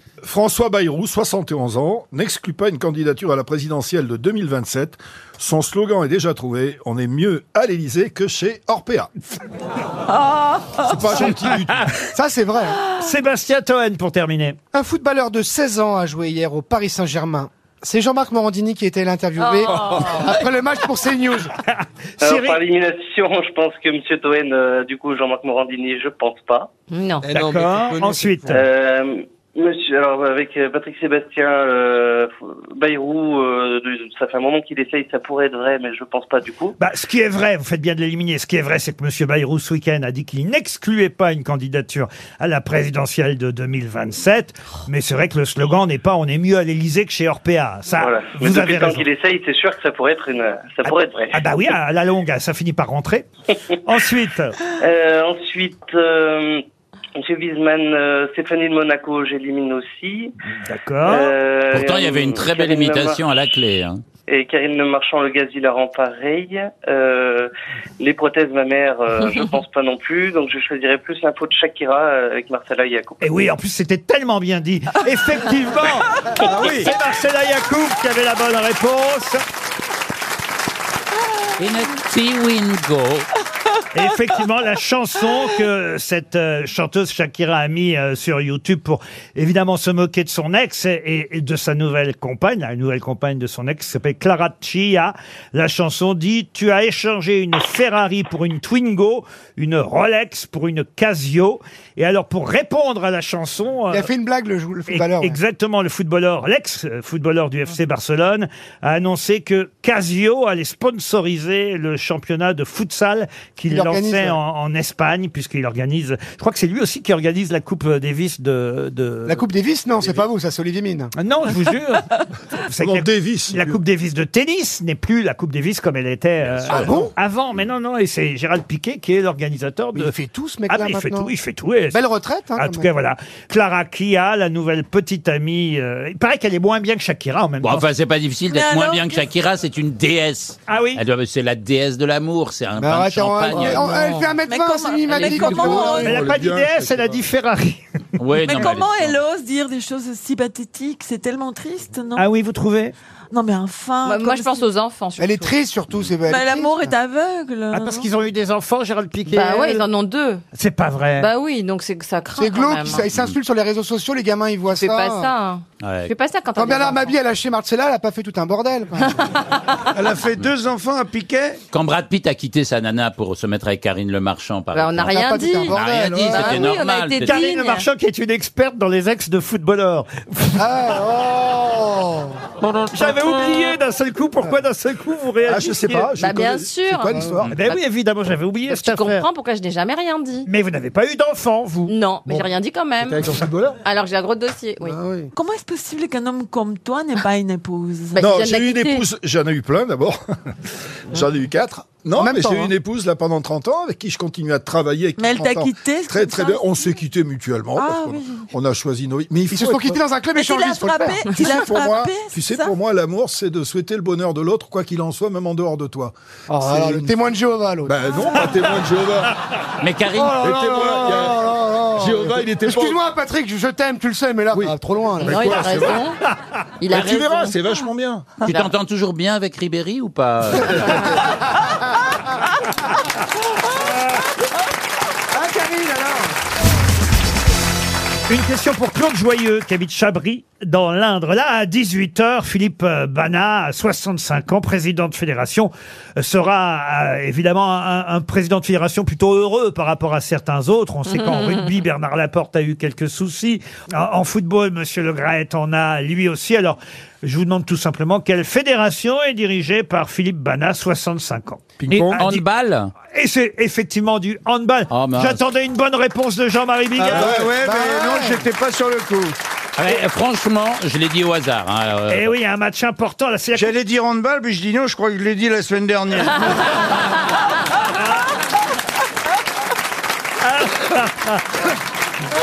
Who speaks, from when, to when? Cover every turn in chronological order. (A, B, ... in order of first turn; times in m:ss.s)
0:00.2-0:09.1 A
0:10.8-0:11.9 A
0:12.1-0:12.8 B
0:12.9-0:14.6 C
0:14.7-0:21.5 B
0:19.4-0:20.4 D
0:21.7-0:22.6 C
0:22.2-0:26.7 E
0:26.9-0:27.3 D
0:27.3-0:28.3 A
0:27.3-0:28.6 C
0:28.5-0:36.8 E
0:36.8-0:49.0 C
0:48.0-0:51.4 E
0:50.8-0:53.2 C
0:53.8-0:54.5 C
0:54.8-0:56.6 E
0:57.2-1:00.3 E
1:00.6-1:01.3 C
1:01.0-1:03.2 E
1:01.7-1:04.0 F
1:04.3-1:13.2 E
1:13.2-1:19.4 C
1:16.5-1:16.9 G
1:21.6-1:23.3 F
1:23.9-1:44.1 C
1:43.9-1:45.4 B
1:44.9-1:59.4 C
1:53.7-1:54.4 B
1:59.2-2:01.1 B
2:01.2-2:02.1 C
2:02.6-2:10.1 C
2:02.8-2:03.8 A
2:06.7-2:07.1 A
2:06.7-2:07.1 B
2:09.9-2:11.3 B
2:10.7-2:12.0 C
2:11.9-2:12.9 B
2:12.6-2:17.9 C
2:17.6-2:24.0 F
2:18.5-2:19.2 H
2:20.7-2:21.0 C
2:22.8-2:26.1 B
2:23.5-2:23.8 A
2:24.4-2:26.2 H
2:25.1-2:25.9 D
2:25.2-2:27.2 A
2:26.0-2:27.8 C
2:28.2-2:29.2 F
2:28.4-2:32.2 H
2:32.2-2:32.9 C
2:33.3-2:34.7 H
2:34.0-2:35.6 D
2:35.2-2:36.9 B
2:36.2-2:38.1 H
2:37.7-2:39.8 C
2:39.3-2:40.4 D
2:40.5-2:41.3 C
2:41.2-2:43.1 D
2:42.4-2:45.3 B
2:43.0-2:43.3 F
2:44.7-2:47.2 D
2:45.8-2:46.1 F
2:46.5-2:49.2 B
2:49.9-2:51.6 G
2:51.7-2:55.2 F
2:54.7-2:57.9 D
2:55.1-2:56.7 B
2:55.7-2:57.4 F
2:57.2-3:00.6 C
3:00.6-3:02.4 B
3:02.9-3:06.1 C
3:03.0-3:03.7 D
3:05.4-3:07.5 A
3:06.2-3:07.8 D
3:07.5-3:09.2 C
3:08.7-3:10.4 D
3:10.4-3:11.9 C
3:11.9-3:13.2 D
3:13.0-3:13.8 A
3:13.8-3:15.0 D
3:14.8-3:15.3 B
3:15.3-3:18.2 H
3:18.1-3:19.0 D
3:18.2-3:20.2 A
3:21.1-3:30.0 A
3:22.2-3:22.7 B
3:25.2-3:27.0 H
3:27.8-3:28.5 H
3:29.5-3:31.3 B
3:30.3-3:32.7 H
3:31.3-3:37.2 A
3:36.5-3:38.2 B
3:37.8-3:39.4 A
3:39.8-3:40.8 F
3:40.2-3:45.5 B
3:40.2-3:43.0 A
3:44.5-3:46.1 A
3:45.2-3:46.2 D
3:46.8-3:47.6 D
3:46.9-3:48.3 A
3:48.4-3:51.2 F
3:55.3-3:56.3 B
3:58.3-4:22.4 C
4:11.1-4:11.6 D
4:21.8-4:22.3 A
4:22.1-4:22.9 F
4:23.1-4:27.4 C
4:24.9-4:25.4 F
4:27.1-4:27.6 A
4:27.1-4:29.4 G
4:27.5-4:28.4 B
4:29.8-4:32.3 F
4:32.1-4:33.7 C
4:33.5-4:36.6 G
4:40.4-4:41.4 C